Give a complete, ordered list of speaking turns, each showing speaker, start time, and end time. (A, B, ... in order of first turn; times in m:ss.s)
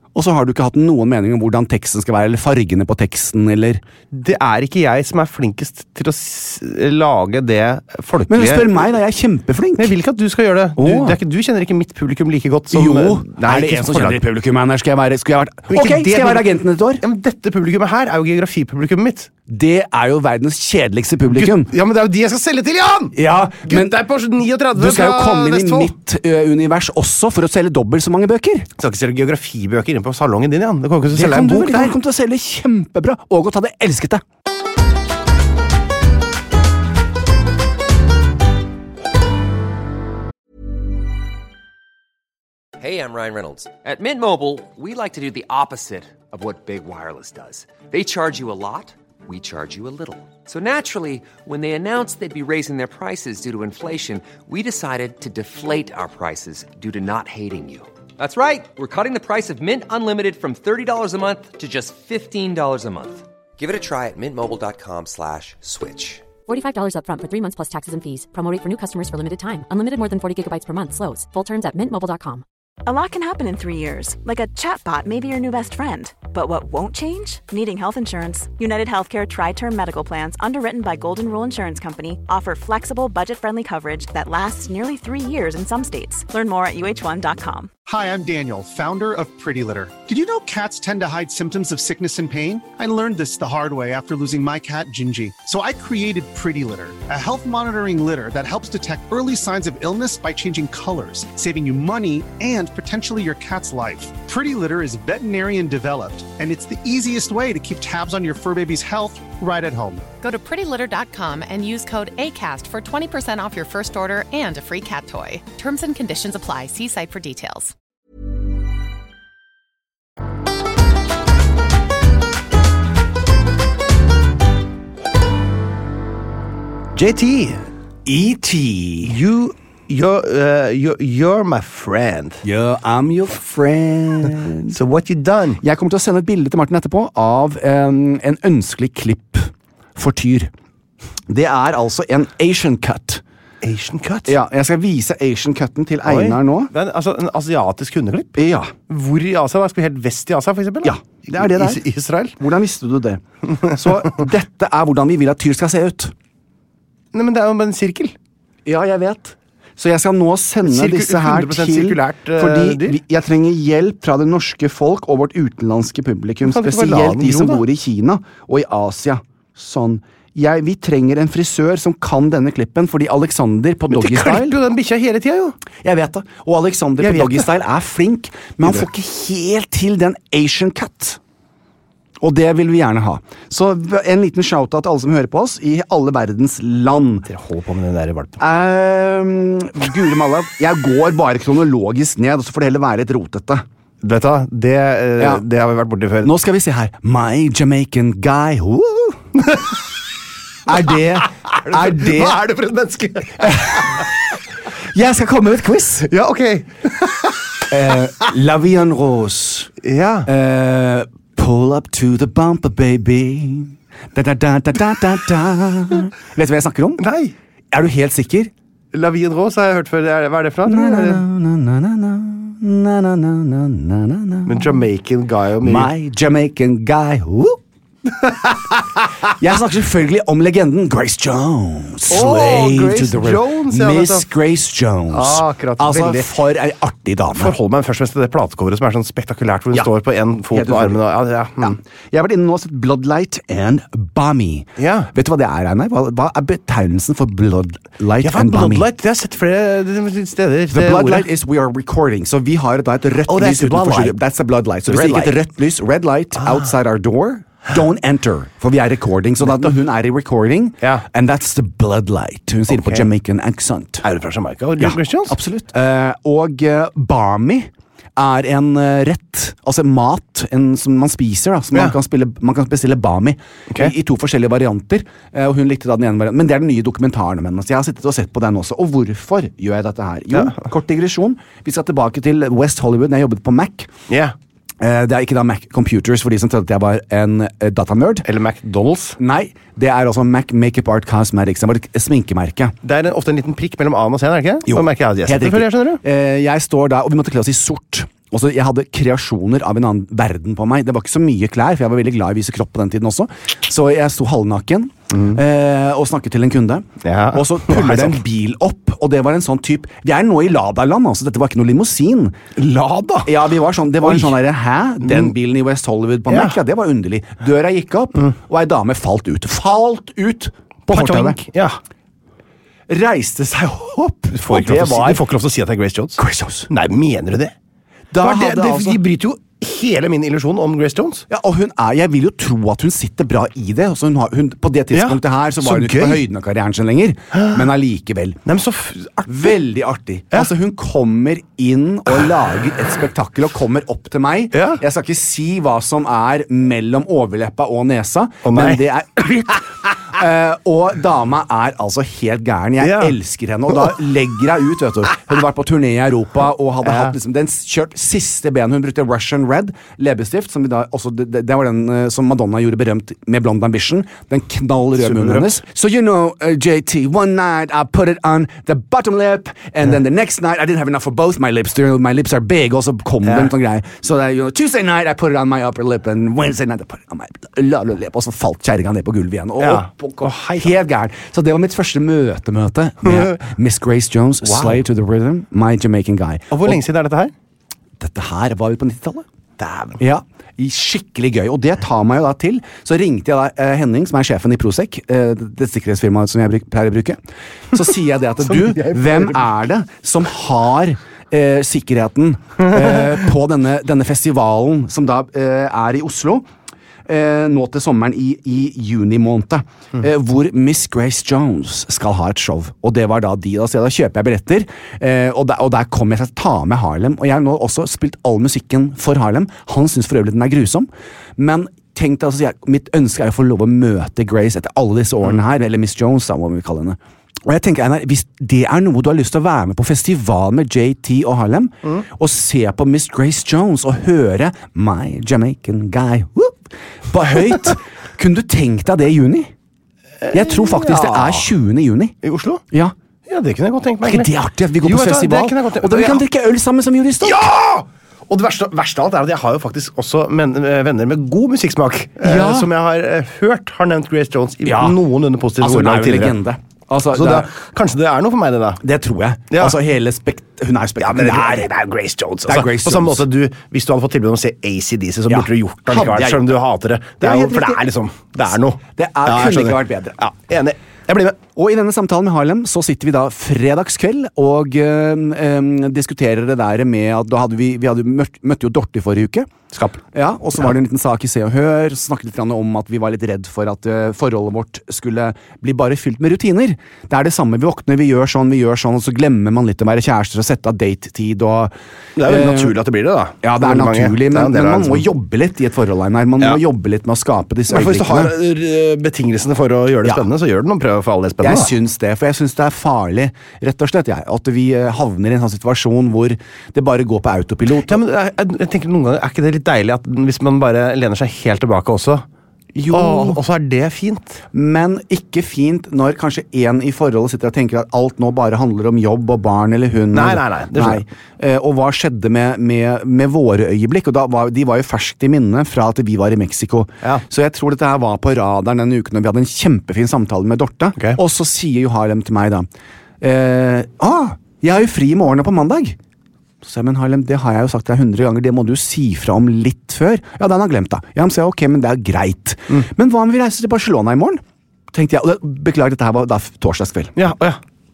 0:00.2-0:03.8 A
0:04.1-0:08.9 B
0:08.3-0:09.9 A
0:09.8-0:14.2 B
0:10.8-0:11.2 A
0:12.7-0:17.0 A
0:15.7-0:16.5 B
0:17.0-0:19.3 B
0:19.5-0:21.7 A
0:21.3-0:25.9 B
0:23.2-0:24.0 A
0:24.7-0:28.7 A
0:28.8-0:32.0 B
0:31.1-0:34.2 A
0:42.8-1:06.3 C
1:06.5-1:12.4 D
1:12.9-1:27.7 E
1:27.9-1:50.1 F
1:50.2-1:57.7 G
2:07.0-2:07.6 B
2:08.1-2:09.2 A
2:09.0-2:12.4 B
2:12.4-2:14.8 A
2:14.7-2:15.6 B
2:15.6-2:20.5 A
2:21.3-2:23.2 A
2:23.6-2:24.4 B
2:24.3-2:26.7 A
2:26.1-2:32.4 B
2:28.4-2:28.7 A
2:30.8-2:31.8 A
2:32.4-2:36.1 A
2:37.1-2:38.1 B
2:38.7-2:54.6 A
2:40.6-2:43.0 B
2:46.4-2:47.6 B
2:53.9-2:55.6 B
2:55.8-3:01.2 A
2:57.0-2:57.5 B
3:02.2-3:07.3 A
3:07.3-3:08.4 B
3:08.4-3:13.6 A
3:14.0-3:16.3 B
3:16.2-3:19.2 A
3:20.7-3:22.4 A
3:21.4-3:24.1 B
3:23.4-3:24.1 A
3:24.9-3:26.1 A
3:26.1-3:27.7 B
3:27.7-3:29.7 A
3:29.8-3:30.3 B
3:30.3-3:37.0 A
3:37.0-3:37.4 B
3:37.7-3:38.5 A
3:38.9-3:41.2 B
3:40.6-3:44.8 A
3:44.5-3:45.9 B
3:45.6-3:47.6 A
3:49.3-3:57.6 A
3:52.1-3:54.3 B
3:55.1-3:56.3 B
3:57.4-4:01.8 B
4:00.5-4:01.0 A
4:01.6-4:08.9 A
4:04.8-4:05.1 B
4:08.2-4:11.3 B
4:10.7-4:24.1 A
4:13.3-4:14.2 B
4:14.9-4:15.4 B
4:22.7-4:23.1 B
4:24.0-4:25.4 B
4:24.8-4:43.9 A
4:40.3-4:40.6 B
4:44.1-4:44.4 B
4:44.8-4:48.3 A
4:48.2-4:49.2 B
4:49.2-4:52.8 A
4:52.8-4:56.0 B
4:54.7-5:12.4 A
5:05.1-5:05.4 B
5:07.0-5:08.2 B
5:12.6-5:13.3 B
5:13.3-5:21.4 A
5:14.0-5:14.4 B
5:15.0-5:15.3 B
5:16.3-5:16.6 B
5:20.9-5:21.8 B
5:22.9-5:25.2 A
5:24.4-5:27.5 B
5:26.2-5:26.7 A
5:28.1-5:29.0 A
5:28.2-5:31.3 B
5:31.3-5:38.4 A
5:34.9-5:36.2 B
5:37.3-5:37.6 B
5:38.5-5:39.5 B
5:39.3-6:26.8 A
5:44.5-5:44.8 B
5:48.4-5:48.8 B
5:52.8-5:53.2 B
5:56.8-5:57.1 B
6:05.0-6:05.6 B
6:13.2-6:13.5 B
6:19.6-6:20.8 B
6:23.1-6:23.4 B
6:24.4-6:24.8 B
6:26.5-6:27.3 B
6:28.0-6:29.3 A
6:29.6-6:30.0 B
6:30.0-6:37.2 A
6:37.7-6:46.5 A
6:38.5-6:39.4 B
6:47.1-7:19.5 A
7:20.2-7:21.5 B
7:20.3-7:22.2 A
7:22.2-7:22.6 B
7:23.3-7:24.3 B
7:24.0-7:27.5 A
7:24.8-7:26.2 B
7:27.2-7:36.4 B
7:32.2-7:32.7 A
7:34.6-7:35.0 A
7:35.6-7:37.5 A
7:37.1-7:38.8 B
7:38.8-7:41.7 A
7:39.5-7:39.8 B
7:41.0-7:51.4 B
7:42.5-7:43.2 A
7:45.3-7:46.5 A
7:47.2-7:47.8 A
7:49.0-7:50.2 A
7:51.6-7:59.5 A
7:59.7-8:00.0 B
8:00.1-8:12.8 A
8:12.2-8:15.0 B
8:13.4-8:18.3 A
8:17.7-8:21.7 B
8:21.4-8:28.0 A
8:27.9-8:32.2 B
8:32.8-8:33.4 A
8:32.9-8:34.4 B
8:34.5-8:52.7 A
8:40.1-8:41.0 B
8:53.2-8:56.0 A
8:56.6-9:07.2 A
9:07.2-9:07.6 B